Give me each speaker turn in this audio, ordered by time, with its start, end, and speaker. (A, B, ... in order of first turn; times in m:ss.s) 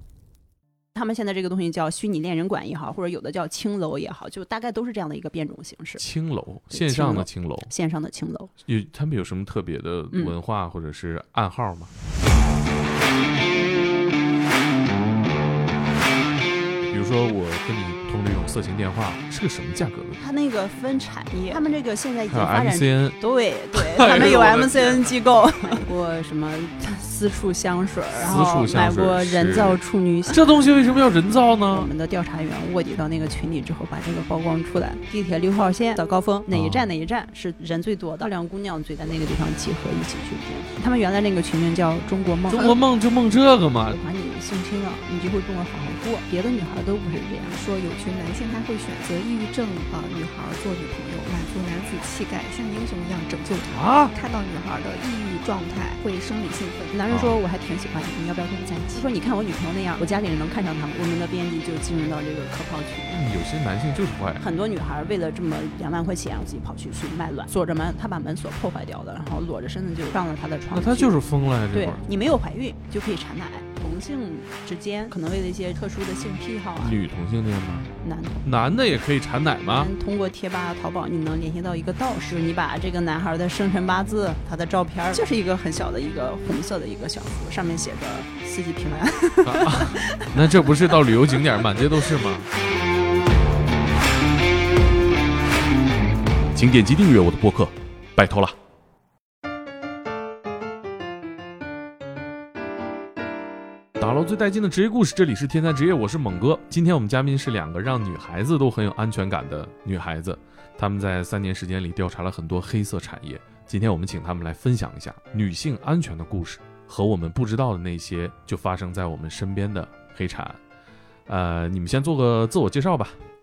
0:01.0-0:06.0 A
0:06.0-0:07.7 B
0:06.7-0:08.5 A
0:08.6-0:11.9 B
0:16.9-0:20.2 B
0:20.2-0:30.4 A
0:22.3-0:23.2 B
0:23.7-0:25.1 B
0:28.2-0:31.9 B
0:31.7-0:42.8 A
0:36.5-0:36.9 B
0:42.5-0:44.0 B
0:43.9-0:47.6 A
0:47.5-0:57.0 C
0:53.7-0:54.1 B
0:56.9-1:03.3 A
0:57.1-0:57.4 B
1:03.1-1:04.4 B
1:04.4-1:11.2 A
1:10.7-1:12.0 B
1:11.7-1:17.0 A
1:16.8-1:17.9 B
1:18.0-1:18.5 A
1:18.4-1:19.9 B
1:19.7-1:30.4 A
1:29.4-1:32.5 B
1:36.5-1:38.6 B
1:44.0-2:00.6 B
2:01.3-2:03.2 B